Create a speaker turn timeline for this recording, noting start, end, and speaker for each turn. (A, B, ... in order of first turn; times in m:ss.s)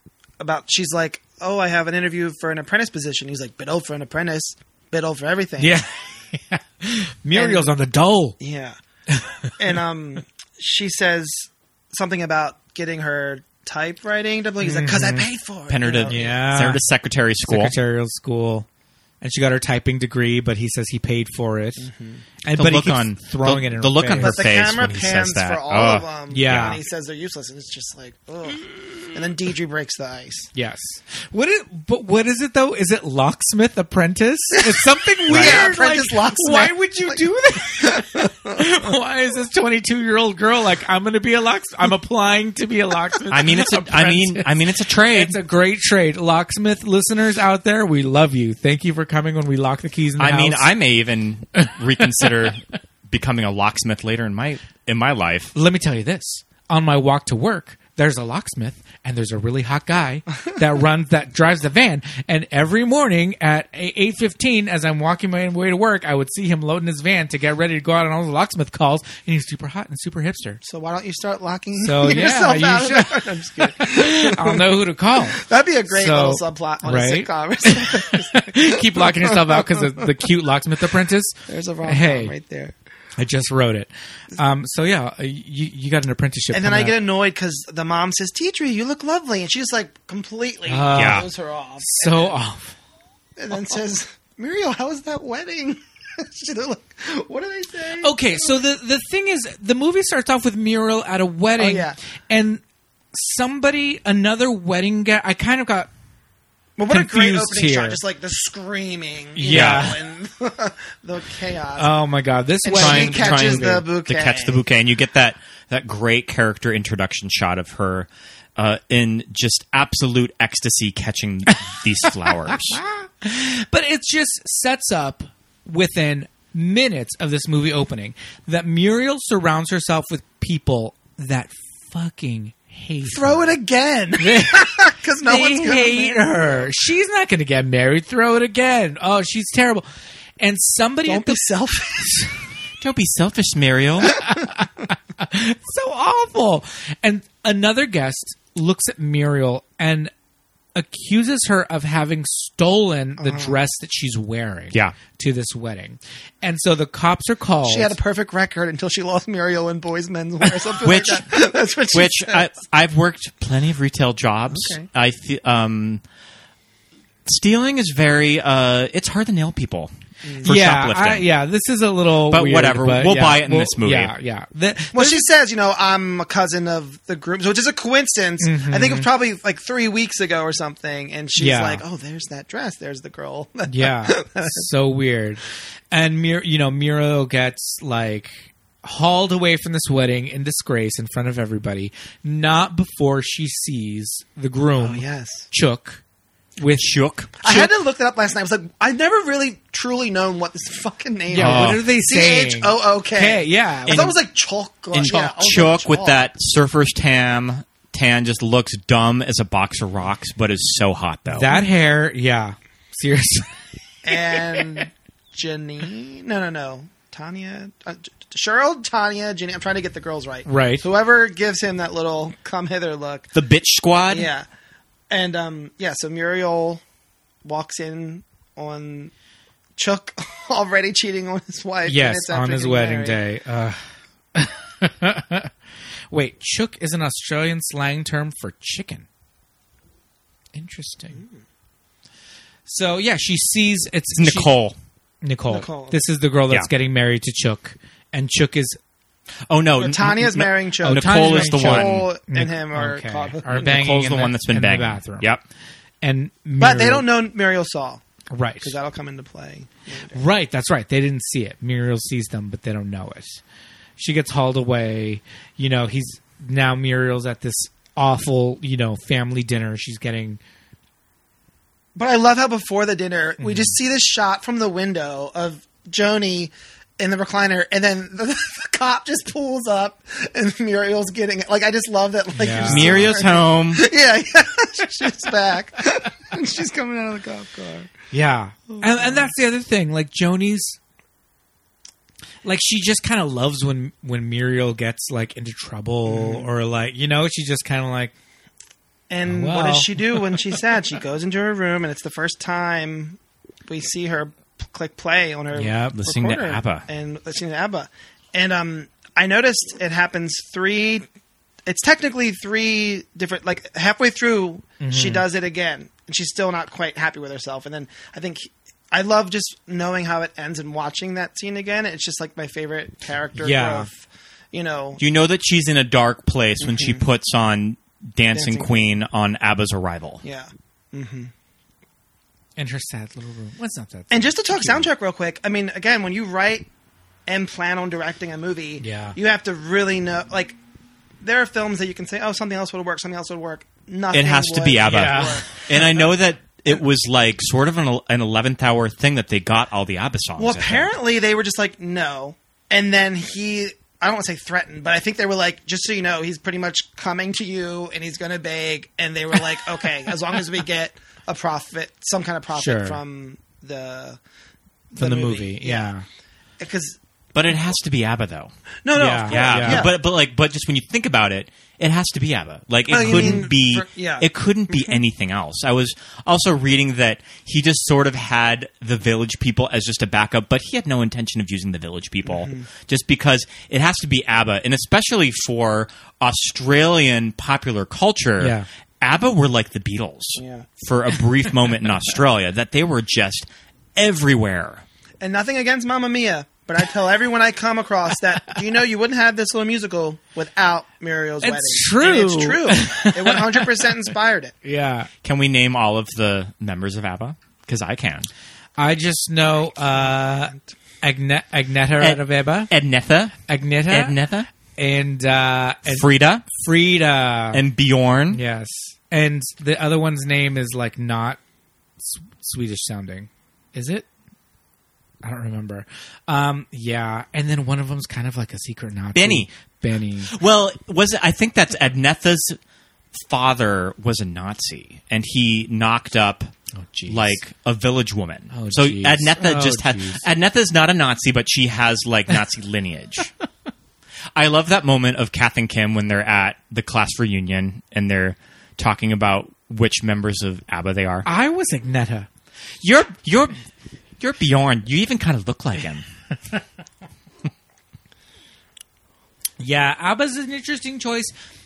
0:00.4-0:05.8 A
0:05.6-0:08.4 B
0:07.3-0:07.7 A
0:08.4-0:08.8 A
0:09.1-0:09.5 B
0:09.6-0:16.3 A
0:14.6-0:15.3 B
0:15.7-0:17.7 C
0:16.1-0:16.8 B
0:17.5-0:18.7 B
0:19.2-0:21.9 B
0:21.8-0:22.2 A
0:22.4-0:24.4 B
0:22.5-0:26.8 C
0:24.2-0:30.5 A
0:26.3-0:26.8 B
0:30.6-0:50.8 B
0:35.3-0:37.2 A
0:35.3-0:35.7 C
0:37.8-0:38.6 A
0:43.3-0:45.4 C
0:50.2-0:55.5 C
0:51.6-0:52.3 B
0:55.6-1:10.6 B
1:10.6-1:14.8 A
1:11.8-1:22.3 B
1:15.3-1:20.1 A
1:21.5-1:22.7 A
1:23.2-1:27.0 B
1:26.5-1:32.3 A
1:30.7-1:31.3 B
1:30.9-1:31.3 C
1:31.9-1:32.8 B
1:33.4-1:38.6 A
1:38.0-1:42.6 B
1:41.6-1:42.0 A
1:43.1-1:45.9 B
1:46.8-1:52.0 A
1:46.9-1:48.0 B
1:49.4-1:50.0 B
1:49.5-1:49.9 C
1:51.8-1:53.9 B
1:52.6-1:54.6 A
1:52.7-2:02.8 C
2:02.5-2:13.5 B
2:13.1-2:16.7 A
2:14.2-2:19.9 B
2:20.4-2:22.3 B
2:21.1-2:22.2 A
2:22.8-2:24.2 C
2:24.2-2:30.1 B
2:30.8-2:38.0 B
2:33.2-2:33.6 A
2:37.7-2:42.5 A
2:40.8-2:41.4 C
2:41.9-2:46.0 C
2:44.5-2:44.9 A
2:47.3-2:51.3 C
2:50.2-2:50.5 A
2:50.4-2:55.2 B
2:52.3-2:54.1 C
2:54.9-3:04.7 A
2:58.4-2:59.1 B
3:01.4-3:01.8 B
3:03.7-3:16.0 B
3:14.8-3:15.5 A
3:16.6-3:16.9 B
3:16.8-3:17.7 C
3:17.4-3:26.3 A
3:21.3-3:24.2 B
3:21.4-3:21.8 C
3:23.9-3:24.1 C
3:24.9-3:31.5 C
3:31.3-3:33.5 B
3:34.0-3:43.3 A
3:34.1-3:34.7 B
3:40.5-3:40.8 B
3:43.4-3:44.3 C
3:44.1-3:44.5 A
3:45.1-3:46.8 A
3:47.4-3:49.1 A
3:49.8-3:53.2 A
3:51.9-3:55.5 B
3:56.1-3:59.1 B
4:00.5-4:01.2 B
4:02.7-4:04.5 B
4:04.2-4:04.8 C
4:05.2-4:08.8 B
4:05.5-4:06.0 A
4:09.5-4:12.1 C
4:09.8-4:13.8 A
4:10.8-4:15.3 B
4:13.5-4:15.4 C
4:16.0-4:17.1 B
4:16.6-4:18.0 A
4:18.3-4:18.7 B
4:18.6-4:20.2 A
4:20.1-4:23.4 B
4:24.0-4:30.4 B
4:32.0-4:47.9 A
4:33.4-4:33.7 B
4:42.4-4:43.1 B
4:42.6-4:43.8 C
4:48.1-4:50.8 B
4:48.7-4:49.3 A
4:52.4-4:58.1 B
4:56.1-4:56.5 A
4:59.1-5:11.1 A
4:59.2-5:00.3 B
5:05.6-5:06.0 B
5:05.9-5:06.9 C
5:11.7-5:25.0 A
5:14.8-5:15.2 B
5:23.4-5:23.9 B
5:25.0-5:30.2 C
5:26.6-5:27.0 A
5:28.3-5:28.8 A
5:30.2-5:31.3 A
5:32.6-5:34.9 B
5:34.1-5:36.7 A
5:37.3-5:40.6 A
5:38.8-5:39.2 B
5:41.2-5:46.1 A
5:44.1-5:50.9 C
5:44.8-5:45.4 B
5:50.4-6:04.2 A
6:02.6-6:03.0 B
6:04.9-6:06.0 B
6:05.0-6:05.9 A
6:06.6-6:07.0 A
6:07.3-6:08.5 C
6:08.8-6:10.0 A
6:09.0-6:09.9 B
6:09.3-6:34.8 C
6:12.9-6:15.0 A
6:13.0-6:13.5 B
6:22.3-6:22.7 A
6:28.4-6:28.7 B
6:30.4-6:30.7 A
6:35.2-6:44.5 A
6:41.4-6:43.7 B
6:44.6-6:45.1 B
6:45.2-6:48.3 C
6:48.8-6:52.7 B
6:52.0-6:54.5 C
6:53.5-6:54.2 B
6:54.8-6:57.6 B
6:55.9-6:56.4 C
6:57.5-6:58.4 C
6:58.3-7:01.4 B
7:02.0-7:04.1 B
7:05.2-7:10.3 B
7:09.2-7:09.5 C
7:10.3-7:12.6 C
7:13.1-7:16.5 C
7:16.8-7:17.4 B
7:17.1-7:23.3 C
7:18.5-7:20.3 B
7:24.4-7:31.3 C
7:31.2-7:32.3 B
7:32.8-7:33.6 C
7:34.2-7:36.1 C
7:39.6-7:41.3 B